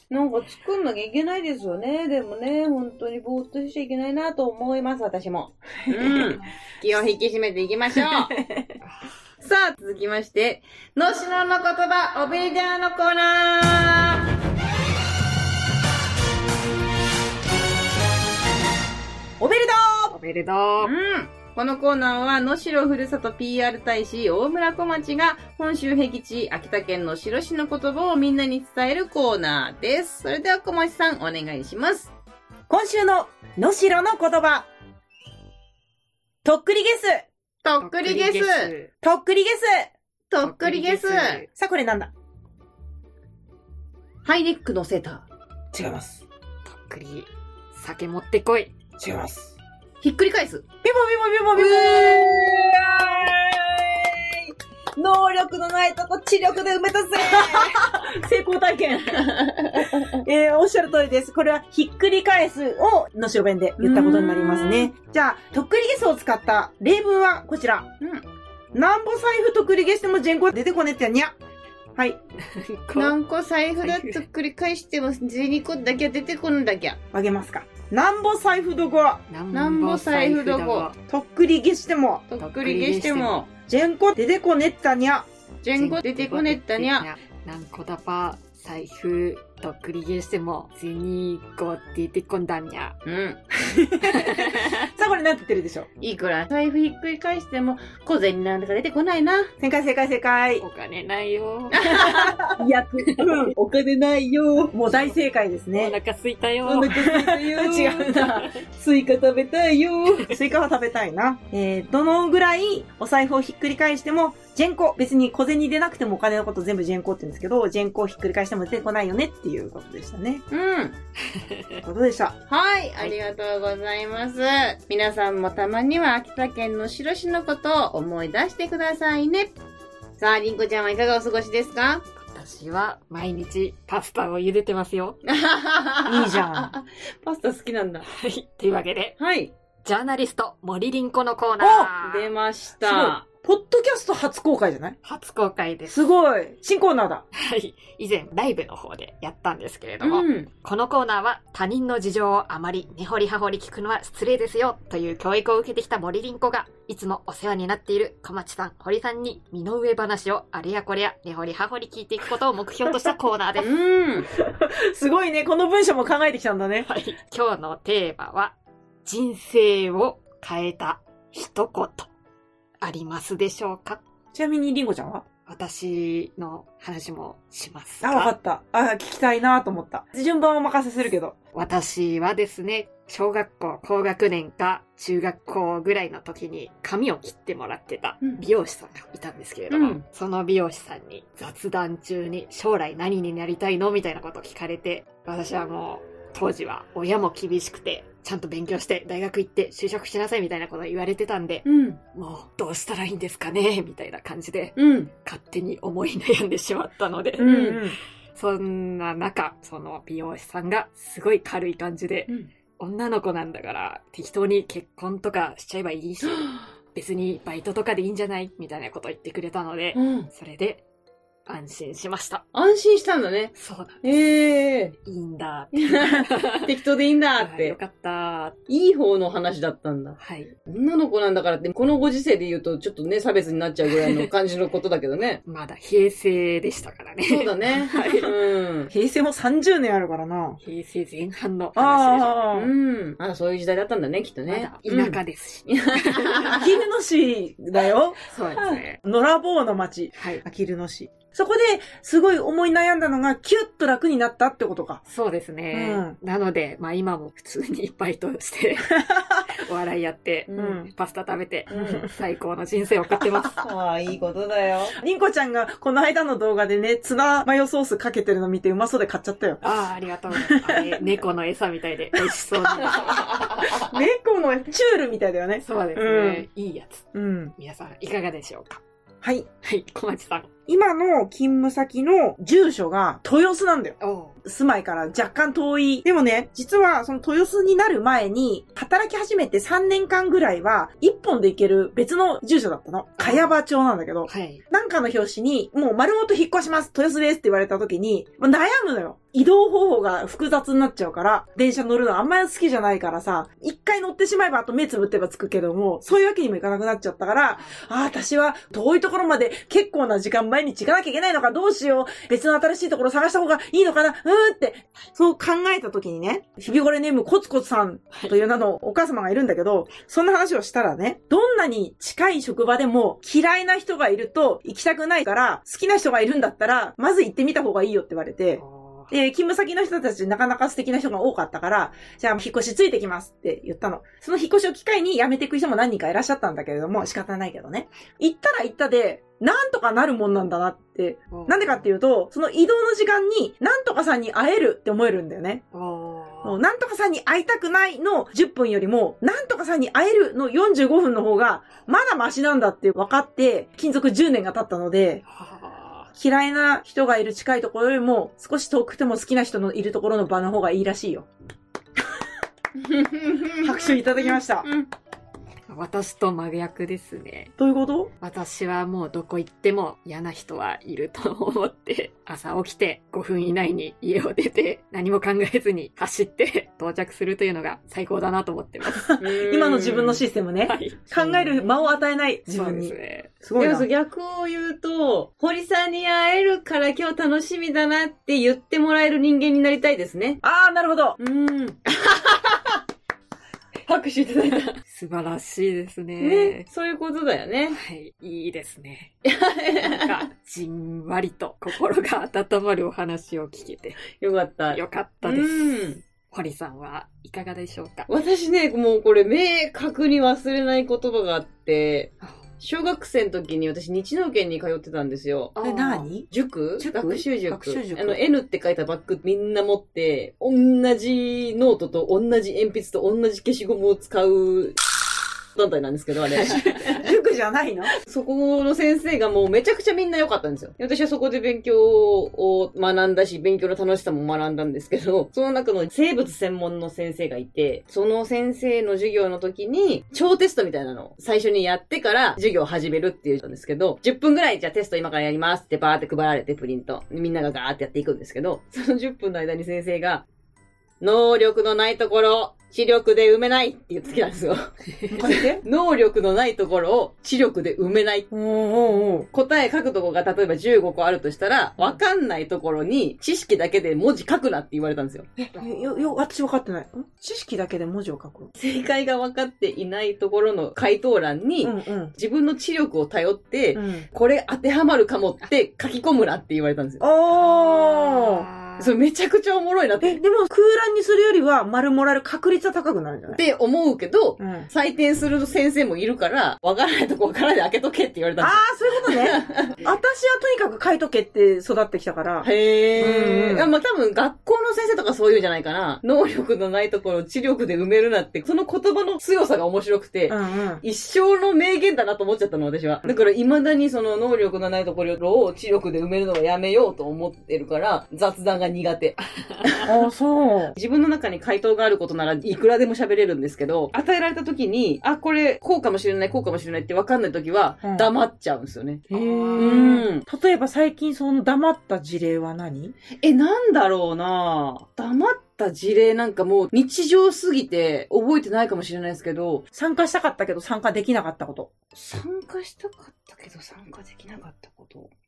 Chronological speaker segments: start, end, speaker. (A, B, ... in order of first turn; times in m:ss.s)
0:00.1-0:08.3 A
0:05.9-0:06.4 B
0:07.9-0:08.7 B
0:08.8-0:09.1 C
0:09.4-0:14.3 A
0:19.4-0:20.1 B
0:20.1-0:20.9 C
0:20.8-0:32.1 A
0:32.7-0:34.7 B
0:36.4-0:37.3 B
0:37.6-0:38.7 A
0:37.8-0:38.9 C
0:39.0-0:39.9 B
0:40.3-0:41.4 A
0:40.4-0:41.5 C
0:41.6-0:42.1 B
0:44.2-0:45.3 A
0:45.7-0:46.2 B
0:46.7-0:48.8 C
0:49.0-0:49.6 B
0:50.0-0:50.6 A
0:50.8-0:52.8 B
0:51.5-1:00.2 A
0:57.2-0:59.2 B
0:59.8-1:07.9 B
1:03.8-1:04.9 A
1:08.7-1:11.3 B
1:12.4-1:13.2 C
1:13.0-1:17.0 A
1:13.8-1:14.2 C
1:17.1-1:19.2 B
1:19.3-1:21.0 C
1:19.5-1:20.9 A
1:21.1-1:22.2 B
1:22.3-1:23.5 A
1:22.4-1:23.4 C
1:23.7-1:25.3 B
1:25.6-1:27.1 A
1:25.8-1:33.0 C
1:33.1-1:33.5 A
1:33.6-1:35.9 B
1:34.0-1:34.9 C
1:36.0-1:39.5 A
1:39.6-1:40.6 B
1:40.6-1:42.2 C
1:41.7-1:44.8 A
1:41.9-1:43.5 B
1:44.7-1:46.0 B
1:44.9-1:45.2 C
1:45.7-1:47.2 C
1:46.6-1:50.4 A
1:46.9-1:48.4 B
1:50.3-2:00.4 B
2:00.5-2:01.0 A
2:01.2-2:01.8 C
2:01.8-2:02.4 B
2:02.5-2:09.5 A
2:10.2-2:12.0 A
2:12.2-2:15.2 C
2:15.3-2:18.1 A
2:16.0-2:16.7 B
2:18.1-2:19.2 C
2:19.2-2:19.5 A
2:19.8-2:22.3 C
2:21.6-2:21.9 B
2:22.0-2:23.2 A
2:22.8-2:25.0 B
2:25.0-2:26.1 C
2:25.9-2:27.2 B
2:27.3-2:43.7 C
2:30.0-2:30.5 A
2:43.6-2:44.3 A
2:44.3-2:46.9 B
2:46.8-2:52.1 C
2:52.8-2:54.0 C
2:54.3-2:55.2 B
2:55.5-2:58.3 C
2:58.0-3:01.4 B
3:01.5-3:27.8 C
3:09.7-3:10.0 A
3:21.7-3:22.0 A
3:24.8-3:25.1 A
3:27.4-3:28.0 B
3:27.4-3:27.8 A
3:28.4-3:40.8 C
3:40.0-3:40.3 A
3:41.5-3:42.4 C
3:42.5-3:45.0 A
3:43.6-3:44.1 C
3:45.0-3:46.7 C
3:45.7-3:47.8 A
3:47.4-3:48.6 C
3:48.7-3:55.4 A
3:50.2-3:50.5 C
3:54.0-3:54.3 C
3:55.5-3:58.3 C
3:57.3-3:58.9 A
3:58.9-4:00.6 B
4:00.6-4:02.4 C
4:01.8-4:02.7 B
4:02.5-4:06.7 A
4:04.5-4:06.6 C
4:06.5-4:08.2 B
4:08.3-4:09.0 C
4:09.0-4:15.0 B
4:10.2-4:10.4 C
4:15.1-4:23.7 C
4:15.7-4:16.2 B
4:20.5-4:20.8 A
4:20.6-4:20.9 B
4:21.7-4:22.0 A
4:23.6-4:25.0 A
4:25.0-4:29.6 B
4:29.6-4:33.4 C
4:30.3-4:31.0 B
4:32.2-4:33.2 B
4:32.9-4:33.9 A
4:33.7-4:36.5 B
4:35.6-4:38.8 C
4:37.1-4:37.5 B
4:39.2-4:39.5 B
4:39.6-4:40.5 C
4:40.7-5:45.6 B
4:44.0-4:44.4 C
4:53.2-4:53.6 C
4:54.3-4:54.6 C
5:07.6-5:07.8 C
5:28.6-5:29.1 C
5:41.3-5:41.9 C
5:45.7-5:46.6 C
5:46.4-5:55.2 B
5:55.3-5:56.1 C
5:56.2-6:01.3 B
6:02.8-6:04.9 A
6:03.6-6:04.7 B
6:05.7-6:07.5 C
6:07.6-6:08.1 B
6:08.2-6:19.2 C
6:18.9-6:23.9 B
6:19.2-6:20.2 A
6:20.7-6:21.8 C
6:22.5-6:23.3 C
6:23.6-6:30.4 A
6:30.4-6:31.2 B
6:31.2-6:32.8 A
6:33.9-6:34.8 A
6:34.8-6:36.7 C
6:36.2-6:37.8 A
6:37.7-6:39.2 C
6:39.2-6:40.2 A
6:39.8-6:44.1 C
6:44.1-6:46.0 A
6:44.7-6:48.1 C
6:48.1-6:55.5 A
6:55.6-6:56.1 C
6:55.6-6:58.2 B
6:56.3-7:04.8 A
7:05.6-7:07.1 A
7:06.3-7:06.9 C
7:06.4-7:07.9 B
7:08.0-7:30.2 A
7:31.0-7:38.3 A
7:35.1-7:35.6 B
7:38.3-7:39.3 B
7:39.3-7:45.3 A
7:45.4-7:48.5 B
7:45.6-7:46.1 C
7:48.6-7:57.0 A
7:51.6-7:52.1 B
7:53.8-7:54.1 B
7:57.0-7:58.5 B
7:57.3-7:59.0 C
7:58.8-8:00.2 A
8:00.0-8:03.4 B
8:03.3-8:09.8 A
8:04.4-8:04.7 B
8:08.4-8:13.7 B
8:12.4-8:29.9 A
8:20.3-8:20.8 B
8:29.4-8:29.7 C
8:29.8-8:30.8 B
8:30.8-8:39.0 A
8:37.8-8:38.1 B
8:39.1-8:40.0 C
8:39.1-8:42.9 B
8:39.6-8:40.2 A
8:43.2-8:49.6 A
8:49.7-8:51.7 B
8:52.0-8:55.1 A